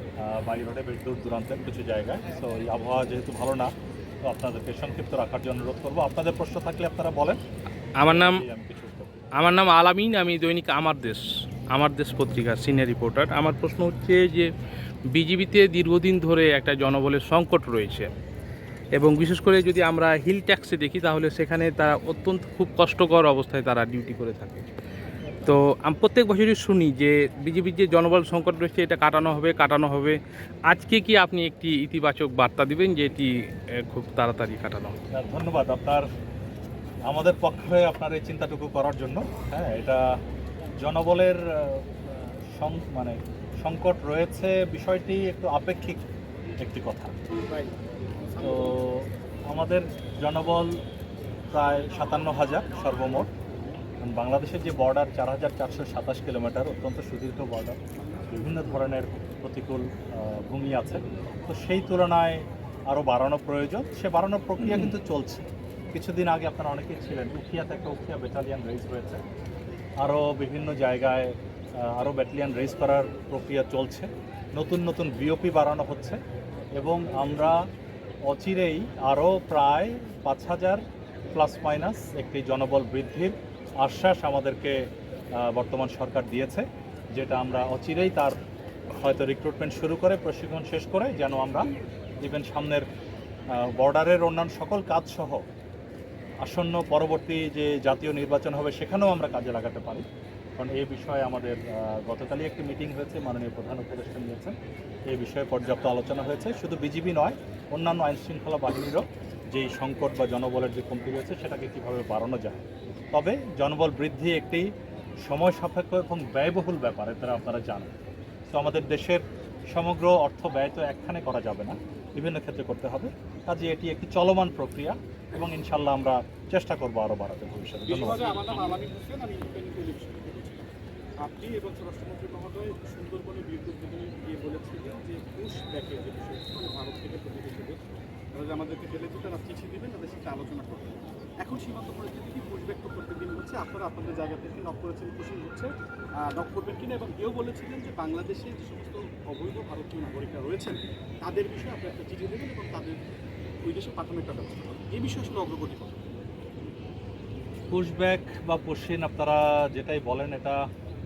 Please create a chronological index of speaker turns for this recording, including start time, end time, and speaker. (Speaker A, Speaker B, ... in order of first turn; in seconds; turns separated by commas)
Speaker A: 0.2-3.7, Speaker A: 4.2-7.4, Speaker A: 8.0-9.3, Speaker B: 8.0-8.4, Speaker B: 9.4-14.5, Speaker B: 15.1-18.1, Speaker B: 19.0-24.7, Speaker B: 25.4-35.0, Speaker A: 35.1-36.1, Speaker A: 37.1-40.1, Speaker A: 40.8-41.9, Speaker A: 42.5-46.0, Speaker A: 46.6-47.1, Speaker C: 47.5-47.8, Speaker C: 48.4-48.8, Speaker A: 48.4-50.8, Speaker A: 51.5-53.3, Speaker A: 54.0-57.8, Speaker A: 58.3-65.4, Speaker A: 65.9-69.2, Speaker A: 70.0-76.2, Speaker A: 76.8-77.6, Speaker A: 78.3-84.8, Speaker A: 85.4-88.4, Speaker A: 88.9-91.7, Speaker A: 92.2-92.9, Speaker A: 93.6-95.4, Speaker A: 96.4-100.0, Speaker A: 100.6-104.6, Speaker A: 105.1-114.7, Speaker A: 115.2-117.9, Speaker A: 118.5-128.2, Speaker C: 127.9-130.7, Speaker C: 131.2-137.8, Speaker C: 138.3-153.0, Speaker C: 153.6-156.1, Speaker A: 157.7-160.6